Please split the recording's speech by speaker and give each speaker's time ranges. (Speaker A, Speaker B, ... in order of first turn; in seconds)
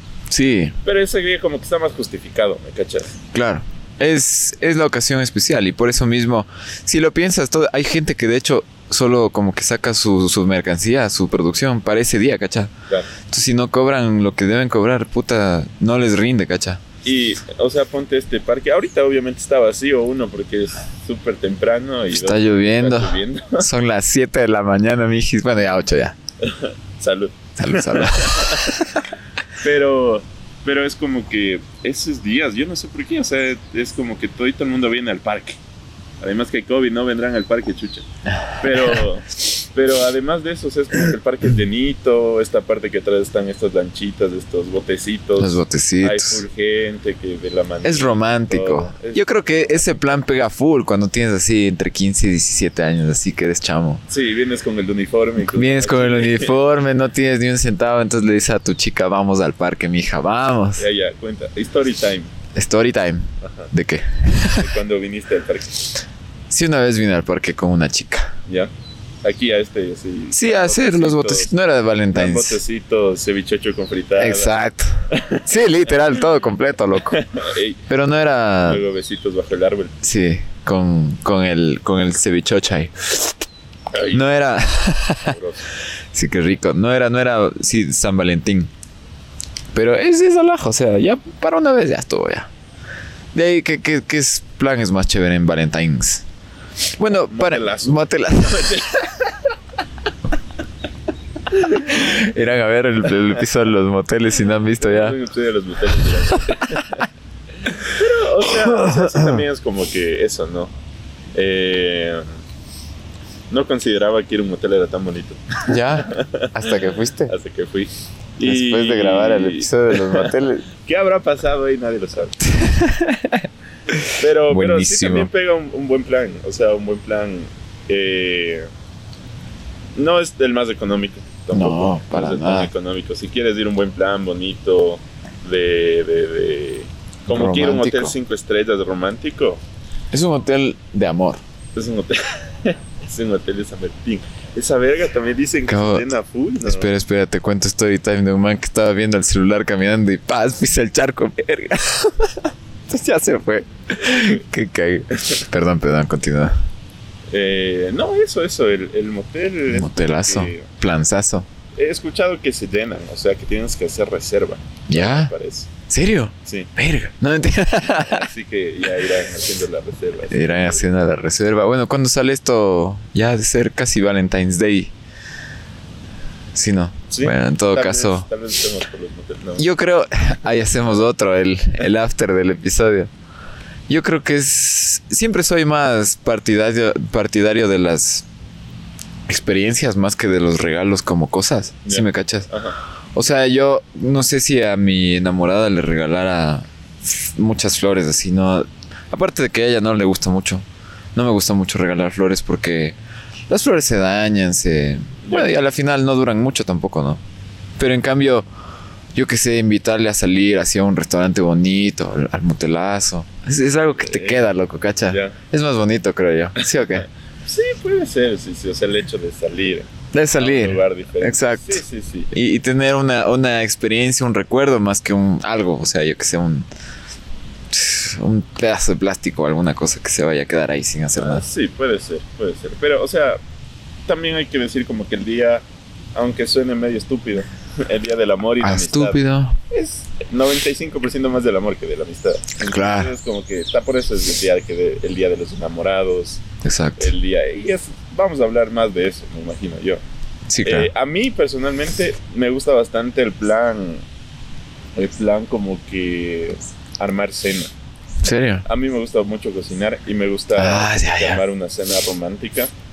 Speaker A: 0.3-0.8, 3.3-12.7, 13.2-16.8, 22.1-26.1, 27.6-29.0, 45.4-46.4, 47.8-54.0, 55.4-60.8, 62.5-64.7, 66.5-68.3, 70.3-72.6, 74.2-77.2, 77.9-78.8, 80.0-83.4, 84.1-85.3, 86.1-88.7, 89.7-92.5, 93.3-96.2, 97.0-98.9, 101.6-105.2, 108.5-109.4, 115.7-117.3, 118.4-120.6, 122.5-125.3, 131.5-132.7, 137.3-138.1, 140.1-141.4, 145.7-146.1, 146.6-156.5, 159.7-161.5, 164.9-165.3, 165.9-168.3, 170.3-174.9, 176.5-178.3, 179.6-183.1, 183.9-188.3, 189.3-192.5, 193.1-200.6, 201.1-202.9, 203.5-207.2, 207.8-208.5, 209.1-217.1, 220.1-226.7, 227.7-231.4, 238.6-239.6, 242.6-243.1, 246.6-247.1, 250.5-250.9, 258.2-258.6, 260.5-261.4
Speaker B: 0.8-3.1, 17.0-23.7, 26.4-28.8, 29.6-35.6, 36.2-38.0, 38.6-50.2, 54.1-56.6, 60.8-62.3, 63.4-63.7, 64.5-66.0, 69.2-71.5, 72.1-74.5, 75.1-75.5, 77.1-77.8, 78.6-79.9, 83.9-84.3, 85.2-85.7, 97.0-99.3, 101.5-101.9, 104.8-107.0, 107.7-110.7, 111.3-112.2, 113.5-116.5, 117.3-122.5, 124.2-128.7, 129.9-139.6, 141.7-146.9, 157.3-160.7, 161.7-165.7, 167.9-170.9, 177.1-179.7, 191.8-192.8, 205.2-205.6, 214.0-214.4, 215.1-215.3, 216.6-222.3, 231.2-233.4, 234.1-235.6, 236.1-239.2, 239.7-246.4, 247.0-250.0, 250.6-254.0, 254.9-257.7, 258.6-262.7